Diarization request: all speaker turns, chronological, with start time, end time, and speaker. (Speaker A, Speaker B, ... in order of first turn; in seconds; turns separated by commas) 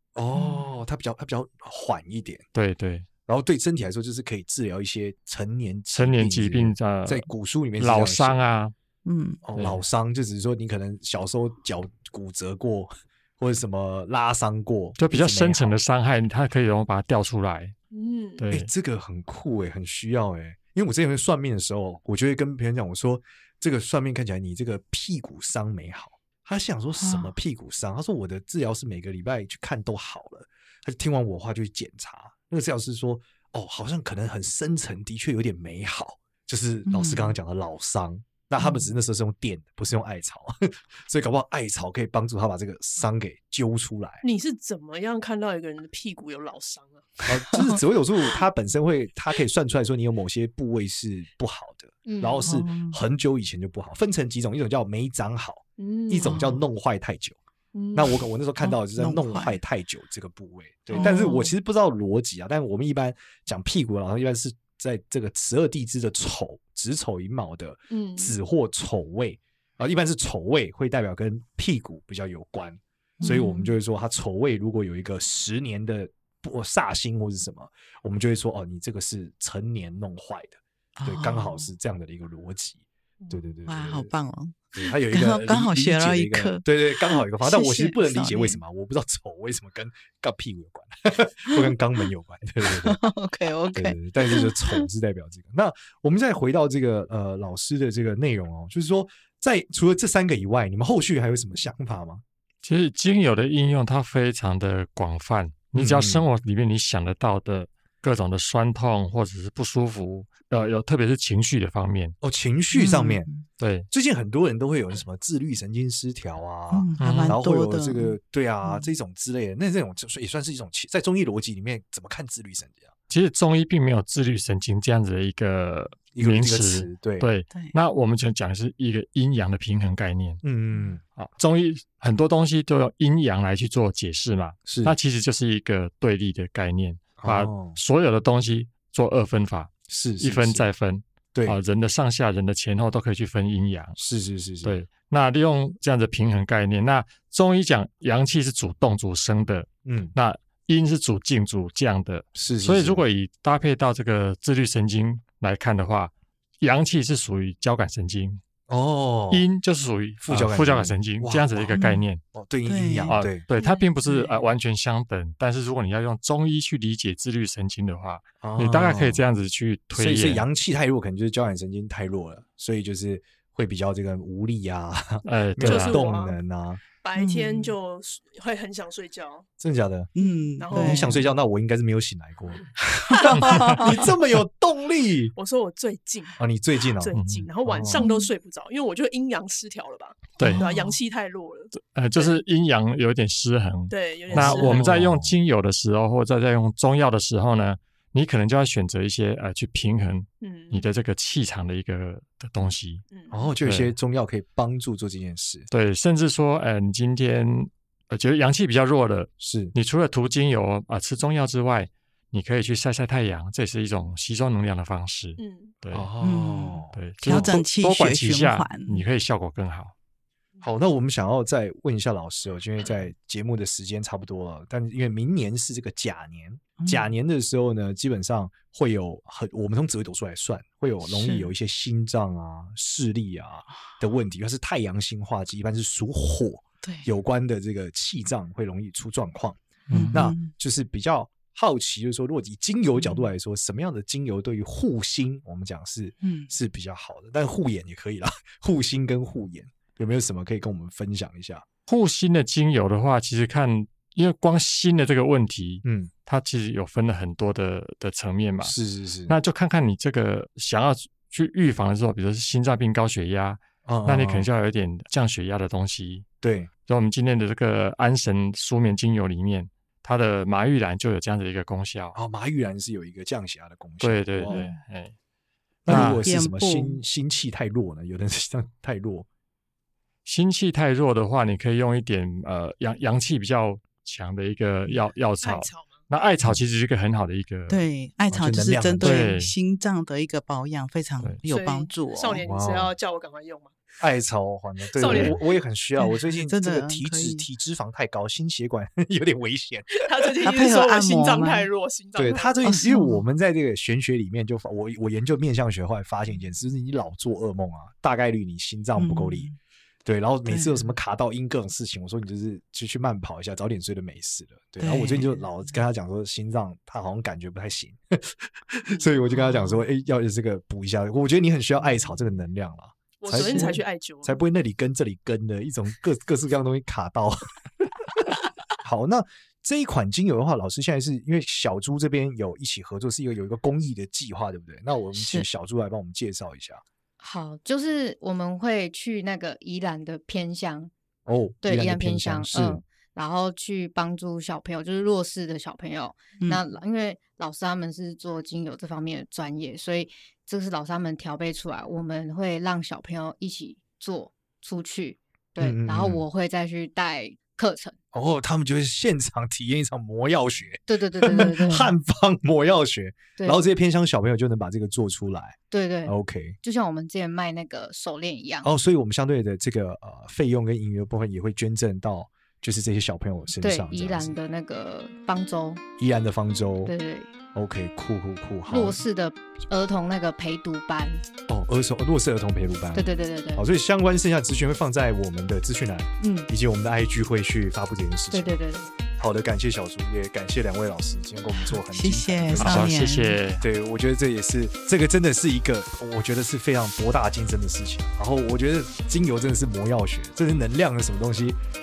Speaker A: 0.1-2.4, Speaker B: 0.3-0.7, Speaker C: 2.5-3.0, Speaker A: 3.2-8.4, Speaker C: 5.9-7.3, Speaker C: 7.8-8.7, Speaker B: 9.0-9.4, Speaker A: 9.4-15.8, Speaker C: 9.6-9.8, Speaker C: 15.0-17.7, Speaker D: 17.9-18.4, Speaker C: 18.4-18.7, Speaker A: 18.5-44.2, Speaker B: 27.0-27.3, Speaker B: 36.9-37.3, Speaker B: 38.6-38.9, Speaker D: 44.2-47.2, Speaker A: 47.2-57.4, Speaker B: 47.5-47.8, Speaker D: 52.0-52.5, Speaker B: 52.4-53.0, Speaker D: 55.8-56.5, Speaker B: 56.2-56.6, Speaker D: 57.7-58.1, Speaker A: 57.9-84.1, Speaker B: 58.6-59.6, Speaker D: 60.9-61.5, Speaker B: 60.9-61.3, Speaker D: 67.9-68.3, Speaker B: 73.2-73.7, Speaker B: 81.0-81.7, Speaker B: 83.7-88.6, Speaker A: 84.7-93.0, Speaker B: 92.8-94.8, Speaker A: 93.7-102.2, Speaker C: 102.6-112.1, Speaker A: 105.7-106.2, Speaker A: 112.2-113.3, Speaker B: 112.7-113.4, Speaker C: 113.6-113.9, Speaker A: 113.9-122.9, Speaker B: 116.7-118.9, Speaker C: 117.0-117.4, Speaker C: 123.1-130.4, Speaker A: 126.1-127.3, Speaker A: 130.4-131.0, Speaker C: 131.2-144.0, Speaker A: 134.7-134.9, Speaker A: 137.2-137.8, Speaker A: 139.9-140.7, Speaker A: 144.0-144.7, Speaker C: 144.6-158.4, Speaker A: 149.8-150.1, Speaker A: 152.3-153.0, Speaker A: 158.7-159.4, Speaker C: 159.3-162.2, Speaker A: 160.2-161.8, Speaker B: 161.7-162.0, Speaker A: 162.3-163.4, Speaker B: 162.7-164.4, Speaker C: 163.1-170.4, Speaker A: 168.4-169.2, Speaker A: 169.9-176.8, Speaker C: 175.2-176.0, Speaker D: 175.6-176.4, Speaker D: 177.0-179.5, Speaker B: 177.2-177.7, Speaker A: 179.6-180.1, Speaker B: 180.2-181.3, Speaker D: 180.2-181.3, Speaker A: 180.7-185.3, Speaker B: 183.1-183.7, Speaker C: 183.3-183.8, Speaker D: 183.5-183.9, Speaker D: 185.3-186.4, Speaker A: 186.4-188.1, Speaker D: 186.9-192.4, Speaker C: 187.1-187.5, Speaker B: 188.0-188.3, Speaker C: 190.4-190.7, Speaker B: 190.4-190.9, Speaker C: 191.8-203.0, Speaker D: 193.9-194.9, Speaker A: 194.3-195.3, Speaker D: 200.4-200.9, Speaker D: 203.1-203.5, Speaker A: 203.3-205.7, Speaker C: 203.6-203.9, Speaker C: 205.7-216.1, Speaker A: 209.4-209.7, Speaker D: 215.4-215.7, Speaker A: 215.9-217.6, Speaker B: 216.2-219.0, Speaker C: 216.9-219.9, Speaker A: 220.6-239.6, Speaker B: 226.8-227.1, Speaker B: 231.0-231.5, Speaker B: 236.8-237.1, Speaker C: 239.9-240.1, Speaker B: 239.9-240.5, Speaker A: 240.1-251.7, Speaker B: 246.2-246.5, Speaker C: 251.9-258.8, Speaker A: 255.8-256.1, Speaker A: 258.6-259.3, Speaker C: 259.3-266.2, Speaker A: 263.9-264.5, Speaker A: 266.4-266.7, Speaker C: 266.9-272.1, Speaker A: 272.1-274.7, Speaker C: 274.0-275.1, Speaker B: 274.5-274.8, Speaker C: 275.8-276.3, Speaker A: 275.8-279.3, Speaker B: 275.9-277.0, Speaker C: 280.2-287.8, Speaker D: 285.4-286.1, Speaker B: 287.7-292.4, Speaker A: 288.3-289.3, Speaker C: 289.0-289.5, Speaker D: 291.4-293.7, Speaker A: 292.4-292.9, Speaker A: 294.0-300.4, Speaker D: 294.9-295.6, Speaker B: 296.0-297.5, Speaker D: 300.0-302.8, Speaker B: 300.4-301.7, Speaker A: 302.1-309.5, Speaker B: 302.6-303.2, Speaker B: 309.0-309.6, Speaker A: 310.0-328.2, Speaker B: 310.5-310.9, Speaker B: 314.8-315.4, Speaker B: 319.3-319.8, Speaker D: 323.2-324.4, Speaker B: 323.3-323.8, Speaker A: 328.8-336.8, Speaker B: 335.1-335.5, Speaker E: 337.2-340.9, Speaker A: 341.2-342.8, Speaker E: 341.6-357.9, Speaker A: 355.6-356.2, Speaker A: 358.1-366.6, Speaker E: 360.9-361.9, Speaker E: 365.7-368.7, Speaker A: 368.6-374.4, Speaker E: 373.6-375.8, Speaker A: 376.0-376.9, Speaker E: 376.8-377.3, Speaker A: 377.5-379.0, Speaker E: 378.7-381.2, Speaker A: 381.5-388.6, Speaker E: 382.9-383.7, Speaker E: 386.2-386.5, Speaker E: 388.3-388.9, Speaker A: 389.1-393.0, Speaker B: 391.9-393.4, Speaker C: 392.6-393.6, Speaker A: 393.6-401.6